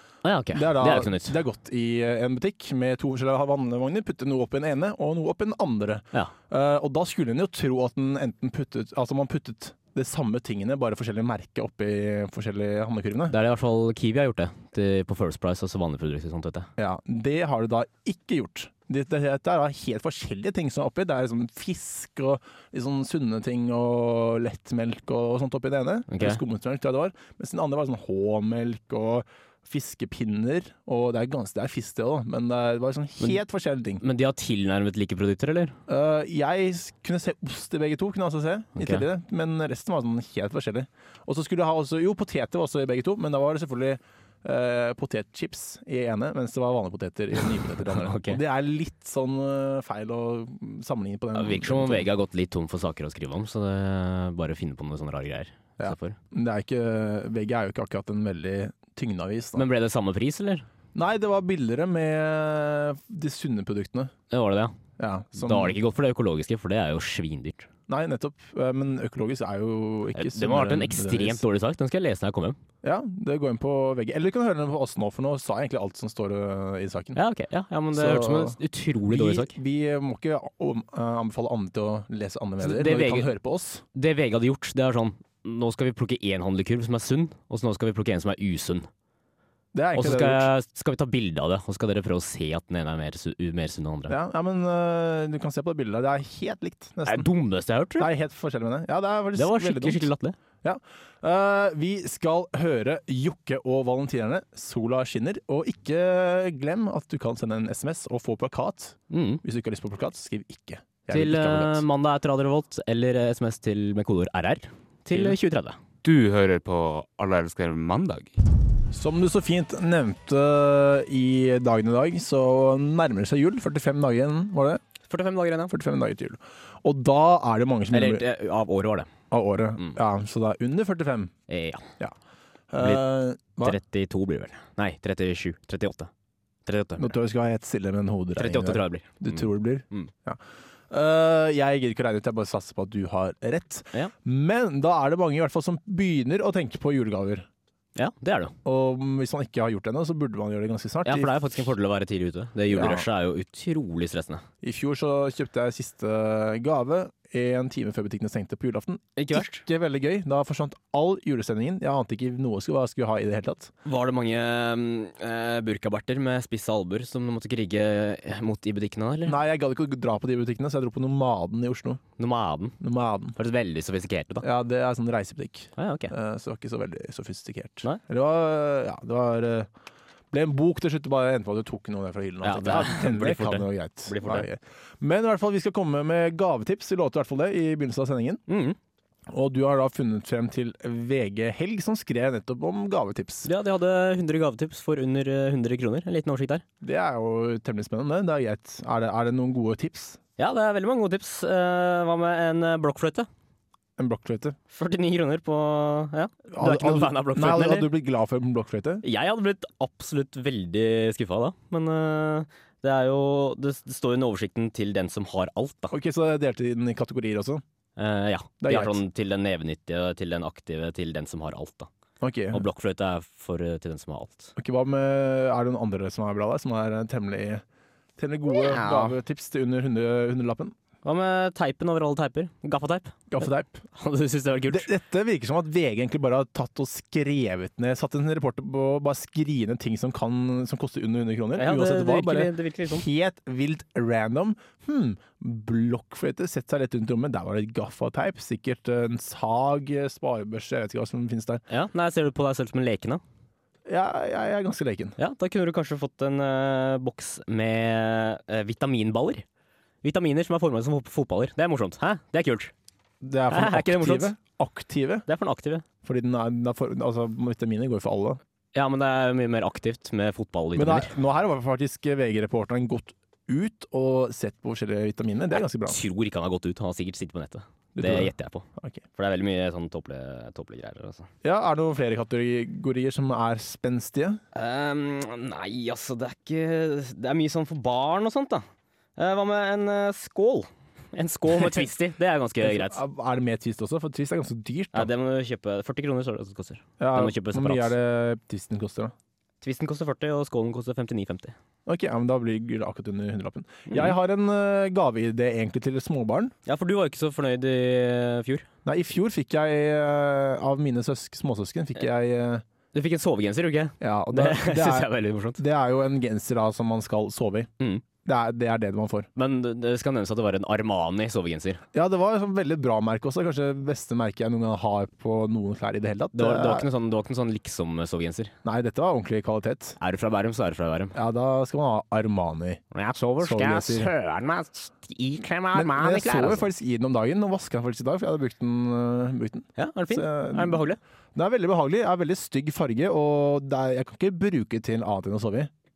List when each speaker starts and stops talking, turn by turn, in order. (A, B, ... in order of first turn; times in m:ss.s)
0:00.2-0:01.4 A
0:00.5-0:13.4 B
0:13.3-0:16.7 A
0:16.8-0:34.0 B
0:26.1-0:26.4 A
0:34.0-0:35.8 A
0:35.9-0:52.1 B
0:38.8-0:39.1 A
0:47.9-0:48.4 A
0:51.4-0:56.2 A
0:55.8-0:59.7 B
0:59.6-1:00.7 A
1:01.0-1:04.1 B
1:04.3-1:04.8 A
1:05.0-1:05.8 B
1:05.4-1:07.7 A
1:07.9-1:11.4 B
1:10.2-1:12.6 A
1:12.8-1:17.2 B
1:17.2-1:19.6 A
1:17.9-1:23.8 B
1:22.6-1:23.3 A
1:24.0-1:28.9 A
1:29.7-1:30.5 B
1:30.0-1:34.2 A
1:34.1-1:37.3 B
1:37.1-1:38.1 A
1:38.0-1:40.1 B
1:39.4-1:40.4 A
1:40.6-1:51.8 B
1:49.1-1:49.4 A
1:51.1-1:55.8 A
1:56.0-1:58.4 C
1:58.9-2:04.8 B
2:05.1-2:05.7 A
2:05.7-2:08.2 B
2:07.9-2:09.1 A
2:09.3-2:11.3 B
2:11.5-2:11.9 A
2:12.7-2:13.8 B
2:13.6-2:16.1 A
2:16.7-2:17.2 A
2:17.0-2:27.5 B
2:18.4-2:20.1 A
2:28.0-2:28.5 A
2:28.6-2:31.7 B
2:31.0-2:34.4 A
2:32.7-2:33.0 B
2:34.6-2:43.7 B
2:39.2-2:39.6 A
2:43.8-2:49.4 A
2:49.3-2:52.0 B
2:52.2-2:52.8 A
2:52.8-2:53.4 B
2:53.4-2:54.5 A
2:54.4-2:59.7 B
2:55.8-2:56.1 A
3:00.3-3:08.4 B
3:02.4-3:04.5 A
3:08.5-3:08.8 A
3:09.3-3:13.5 B
3:13.4-3:16.6 A
3:16.8-3:20.2 B
3:20.4-3:23.3 A
3:24.0-3:24.6 B
3:24.7-3:27.9 A
3:26.5-3:29.0 B
3:29.0-3:36.0 A
3:35.9-3:37.6 B
3:38.0-3:41.9 A
3:38.6-3:39.0 B
3:42.2-3:42.6 B
3:42.5-3:44.5 A
3:44.6-3:47.6 B
3:48.2-3:50.8 B
3:48.6-3:49.2 A
3:51.0-3:54.9 A
3:53.3-3:53.8 B
3:54.7-4:11.6 B
4:01.6-4:03.1 A
4:11.7-4:13.2 A
4:13.9-4:15.2 B
4:15.2-4:19.4 A
4:20.0-4:22.7 A
4:23.2-4:25.2 B
4:23.5-4:24.3 A
4:25.3-4:25.8 A
4:26.0-4:28.4 B
4:28.8-4:31.2 A
4:30.8-4:36.0 B
4:35.8-4:41.3 A
4:38.0-4:39.0 B
4:41.4-4:44.4 B
4:44.5-4:48.6 A
4:49.2-4:53.0 A
4:52.6-4:55.1 B
4:54.9-4:58.0 A
4:57.0-4:59.1 B
4:59.6-5:01.6 A
5:01.9-5:06.5 B
5:03.9-5:04.2 A
5:06.7-5:08.7 A
5:08.8-5:12.6 B
5:12.9-5:15.6 A
5:14.0-5:17.7 B
5:18.2-5:19.3 B
5:19.4-5:21.8 A
5:21.9-5:26.9 B
5:26.3-5:28.5 A
5:28.6-5:30.0 B
5:30.0-5:31.2 A
5:31.1-5:32.8 B
5:32.9-5:36.7 A
5:33.4-5:34.1 B
5:35.7-5:40.8 B
5:39.8-5:41.0 A
5:41.4-5:45.7 B